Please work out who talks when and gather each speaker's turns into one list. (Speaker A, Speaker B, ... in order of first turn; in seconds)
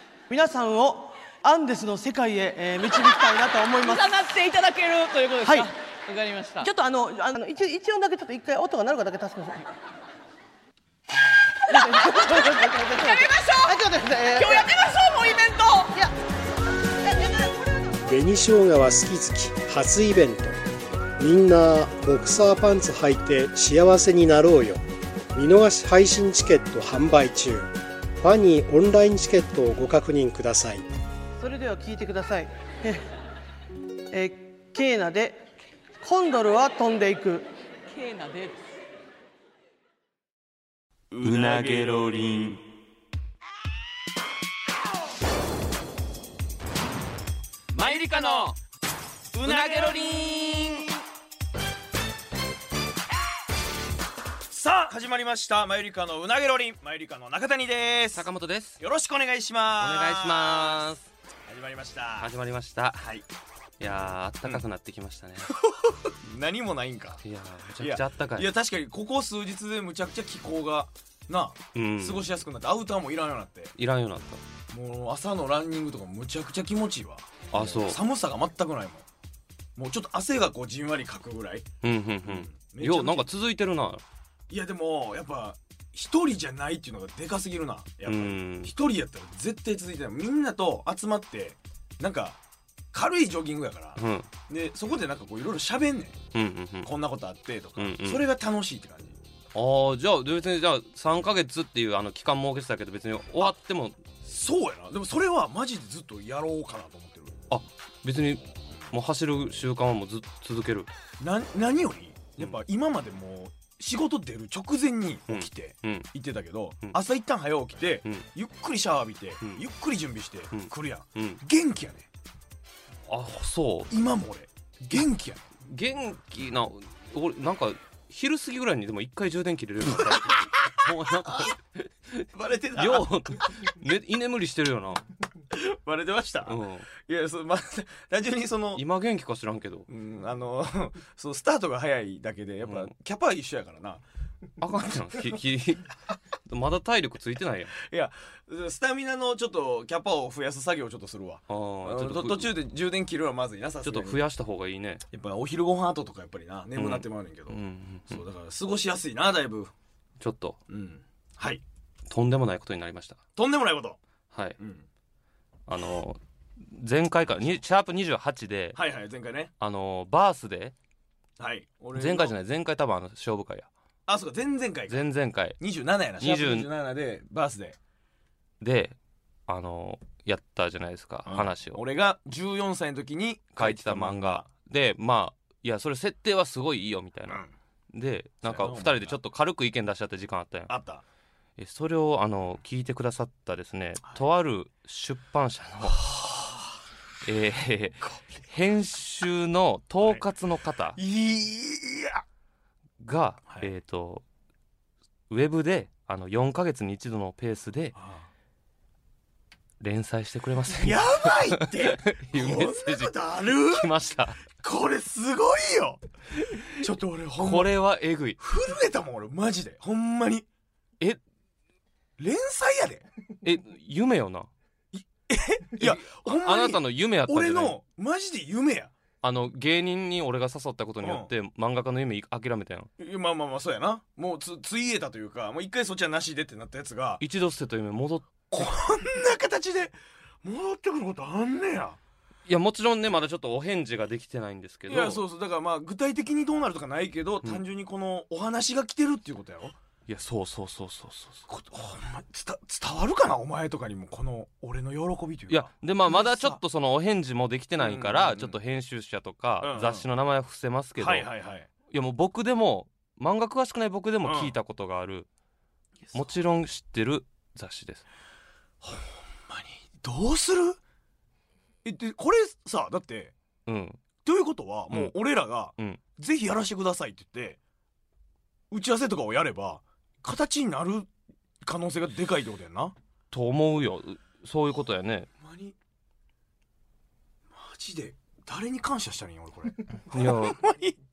Speaker A: 0.3-4.2, 5.4-5.7, 6.6-9.7, 11.7-14.7, 31.4-33.1, 34.1-35.4, 36.0-37.5
Speaker B: 3.8-6.7, 11.7-15.9, 37.9-38.6
Speaker C: 18.0-20.6, 21.2-24.8, 25.3-30.9
Speaker D: 41.1-42.2, 47.8-48.5, 49.3-50.8, 54.5-58.3, 58.8-60.9, 61.5-62.3, 63.0-63.3, 65.5-67.2, 67.8-73.7, 74.7-79.1, 79.8-81.7, 82.3-83.3, 84.5-92.4, 92.9-96.2, 96.8-99.2, 104.2-107.4, 111.2-122.1, 123.9-125.4, 129.9-131.5, 132.3-133.5, 135.5-138.8, 139.9-144.0, 147.8-154.2, 155.1-159.7, 160.7-161.6, 163.4-164.0, 164.6-164.9, 168.8-169.5, 171.4-172.3, 174.1-175.1, 175.6-177.8, 181.2-184.5, 188.4-189.2, 190.7-191.0, 195.8-196.8, 200.9-202.2, 207.9-208.3, 210.7-213.9, 214.5-216.0, 216.7-217.7, 218.4-220.5, 222.2-223.0, 225.0-228.9, 231.0-231.3, 233.0-237.2, 238.5-242.0, 244.9-249.8, 251.5-256.6, 257.8-258.6, 259.6-260.1, 261.0-261.7, 264.2-264.5, 266.0-266.3, 268.8-270.8, 271.8-273.3, 274.2-277.6, 278.7-281.1, 281.6-282.9, 285.4-285.8, 287.5-291.0
Speaker E: 41.2-42.6, 47.7-48.6, 49.4-50.9, 58.1-58.8, 59.8-61.1, 62.2-63.1, 63.8-65.6, 67.2-68.5, 71.8-72.3, 73.8-74.4, 77.5-78.0, 81.8-84.0, 88.1-88.7, 94.0-94.3, 96.3-96.9, 97.8-98.2, 99.5-104.0, 107.5-110.9, 115.3-116.1, 120.5-121.4, 123.1-123.9, 125.6-135.0, 136.5-136.9, 138.8-139.9, 142.7-142.9, 144.6-145.9, 146.5-147.8, 151.5-152.6, 153.8-155.0, 156.8-158.2, 160.2-160.6, 162.1-163.2, 164.3-164.6, 165.7-168.8, 169.6-170.7, 171.9-173.7, 174.9-175.6, 176.2-176.7, 178.6-179.0, 179.5-181.8, 183.6-187.4, 187.9-190.7, 191.6-196.1, 197.2-201.0, 203.0-204.2, 205.3-208.0, 209.8-214.4, 217.4-218.4, 223.4-224.5, 225.8-227.8, 229.2-232.9, 237.2-238.3, 242.5-245.2, 250.1-251.5, 255.5-261.3, 261.9-265.3, 266.1-268.0, 273.7-274.0, 283.3-285.3, 290.1-290.6